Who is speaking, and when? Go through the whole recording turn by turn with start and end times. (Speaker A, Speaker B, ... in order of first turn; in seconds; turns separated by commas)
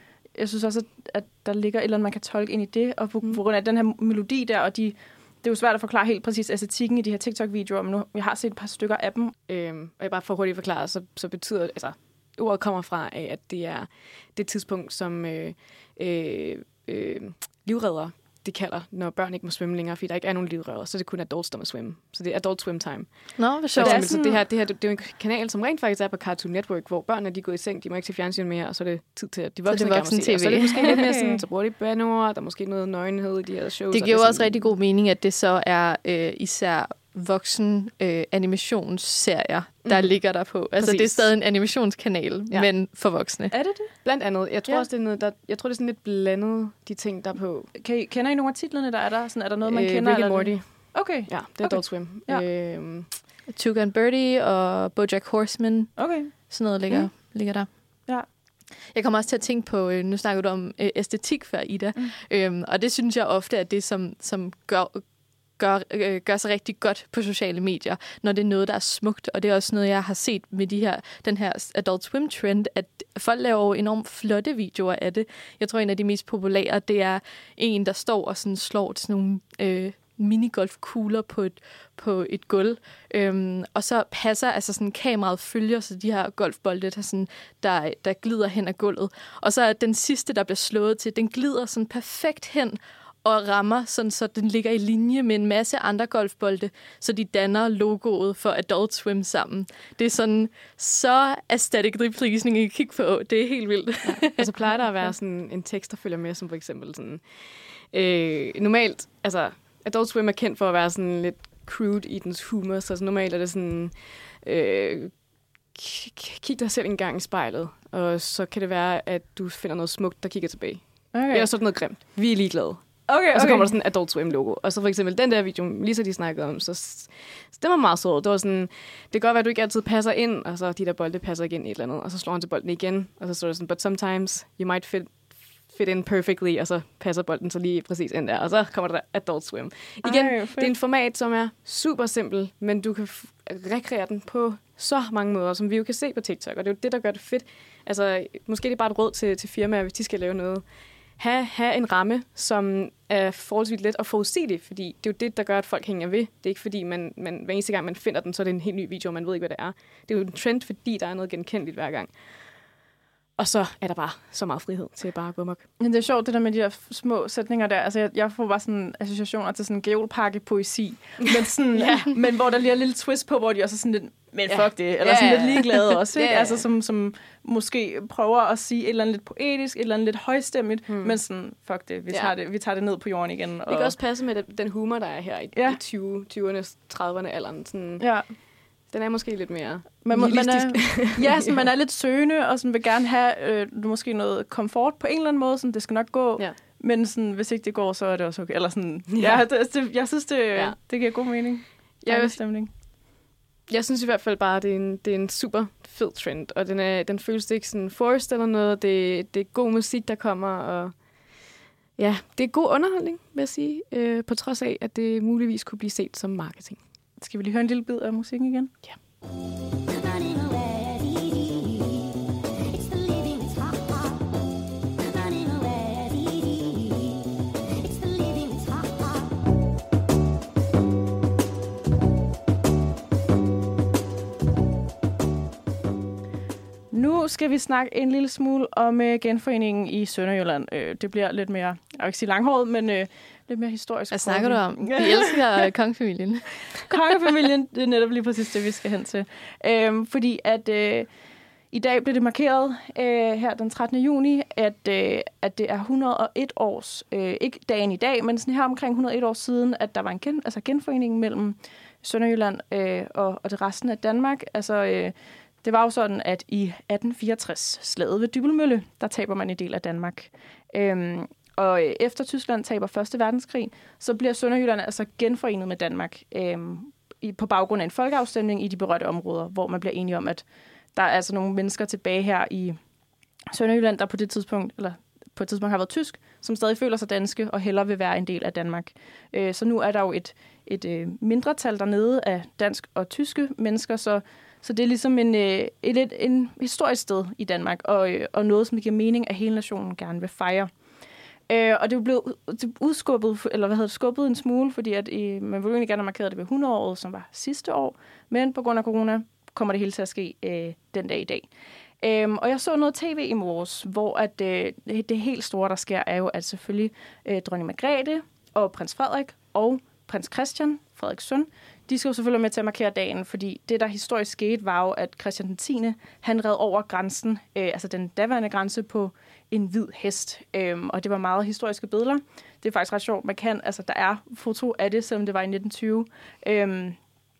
Speaker A: 0.4-9.3, Speaker B: 9.5-34.7, Speaker C: 23.4-24.2, Speaker A: 23.7-24.4, Speaker C: 29.7-31.0, Speaker A: 30.8-31.4, Speaker C: 33.9-43.5, Speaker B: 40.7-41.3, Speaker A: 43.5-43.9, Speaker B: 44.0-47.7, Speaker A: 47.7-52.4, Speaker B: 49.6-53.1, Speaker C: 53.5-58.1, Speaker A: 56.0-56.3, Speaker C: 58.9-104.4, Speaker B: 104.0-115.2, Speaker B: 115.7-150.6, Speaker A: 121.1-121.5, Speaker A: 123.1-123.7, Speaker A: 140.0-140.7, Speaker B: 151.2-162.4, Speaker B: 163.4-165.7, Speaker A: 165.8-183.9, Speaker B: 171.2-172.2, Speaker B: 174.5-176.7, Speaker B: 180.9-181.2, Speaker B: 182.1-182.3, Speaker B: 183.7-188.3, Speaker A: 188.0-188.2, Speaker B: 188.8-191.6, Speaker A: 190.0-202.7, Speaker B: 199.1-199.4, Speaker B: 200.5-200.9, Speaker B: 202.0-202.8, Speaker B: 203.7-216.8, Speaker A: 217.2-218.7, Speaker A: 236.9-245.3, Speaker C: 244.1-246.5, Speaker A: 246.9-251.1, Speaker A: 251.7-280.4, Speaker A: 280.9-282.8, Speaker A: 283.5-300.7, Speaker A: 301.5-311.5, Speaker A: 312.0-337.0